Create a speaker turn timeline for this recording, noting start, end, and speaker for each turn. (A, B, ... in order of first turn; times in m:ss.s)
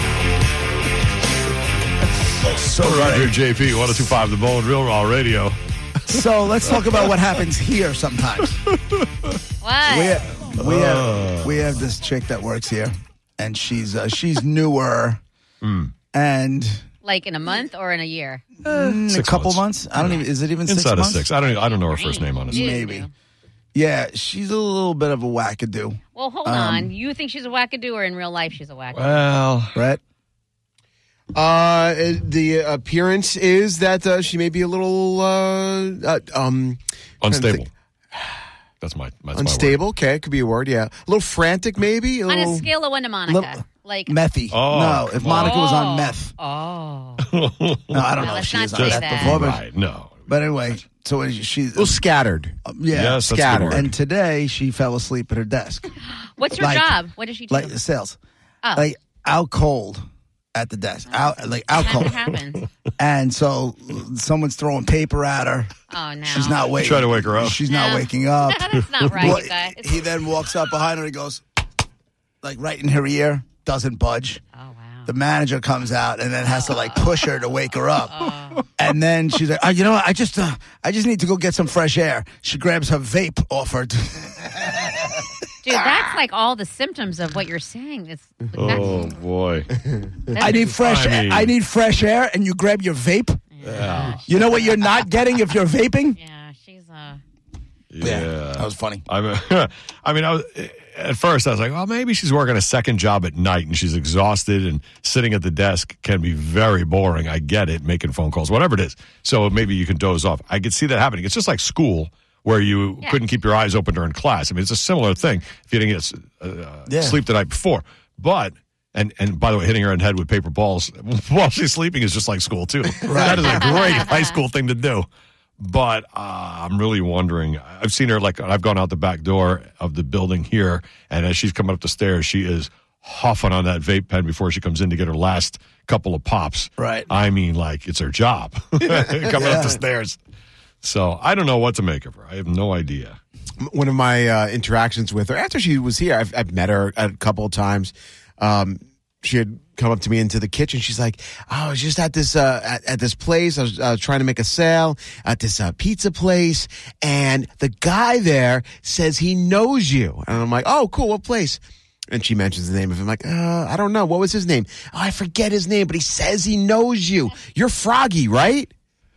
0:02.4-0:03.4 A
0:02.7-0:05.6 B
0:06.0-0:08.6 A
0:06.1-0:06.9 B
0:08.7-0:09.4 B
0:09.6-0:10.2 C
0:09.8-0:15.2 A
0:10.5-0:11.8 B
0:15.6-0:15.9 B
0:16.1-0:16.8 A
0:17.0-0:18.4 C
0:18.6-0:21.3 A
0:18.6-0:22.8 B
0:21.5-0:23.1 C
0:22.5-0:23.1 A
0:23.7-0:26.9 A
0:26.1-0:29.1 C
0:28.9-0:29.8 B
0:29.7-0:30.0 A
0:31.3-0:37.6 D
0:37.2-0:37.7 B
0:38.1-0:38.4 D
0:38.8-0:39.8 B
0:39.3-0:42.7 D
0:42.3-0:44.1 C
0:43.3-0:46.3 A
0:44.5-0:45.6 B
0:45.4-0:47.3 C
0:47.2-0:50.7 B
0:47.9-0:49.6 A
0:48.2-0:49.4 C
0:50.3-0:52.0 A
0:51.7-0:52.6 D
0:52.6-0:55.9 A
0:52.9-0:53.9 B
0:53.2-0:53.9 D
0:56.0-0:57.8 C
0:56.6-0:57.0 A
0:57.5-0:58.2 A
0:58.7-1:02.2 A
1:01.7-1:02.6 C
1:03.0-1:05.7 A
1:05.9-1:06.7 C
1:06.2-1:11.4 A
1:06.8-1:07.6 B
1:07.7-1:10.0 C
1:09.0-1:09.4 B
1:12.4-1:14.4 A
1:14.5-1:15.1 C
1:15.0-1:25.3 A
1:16.5-1:17.2 C
1:18.0-1:18.7 C
1:25.6-1:29.1 C
1:28.5-1:29.7 B
1:30.3-1:30.7 C
1:30.4-1:33.4 A
1:30.7-1:31.5 B
1:33.5-1:34.7 C
1:33.6-1:34.2 B
1:34.2-1:36.2 A
1:36.2-1:37.2 C
1:37.9-2:05.1 B
1:38.0-1:39.0 A
1:56.9-1:57.2 A
2:03.0-2:03.8 A
2:03.6-2:04.4 C
2:05.6-2:20.2 B
2:16.8-2:17.1 A
2:19.3-2:19.8 A
2:20.8-2:23.2 B
2:23.6-2:48.7 D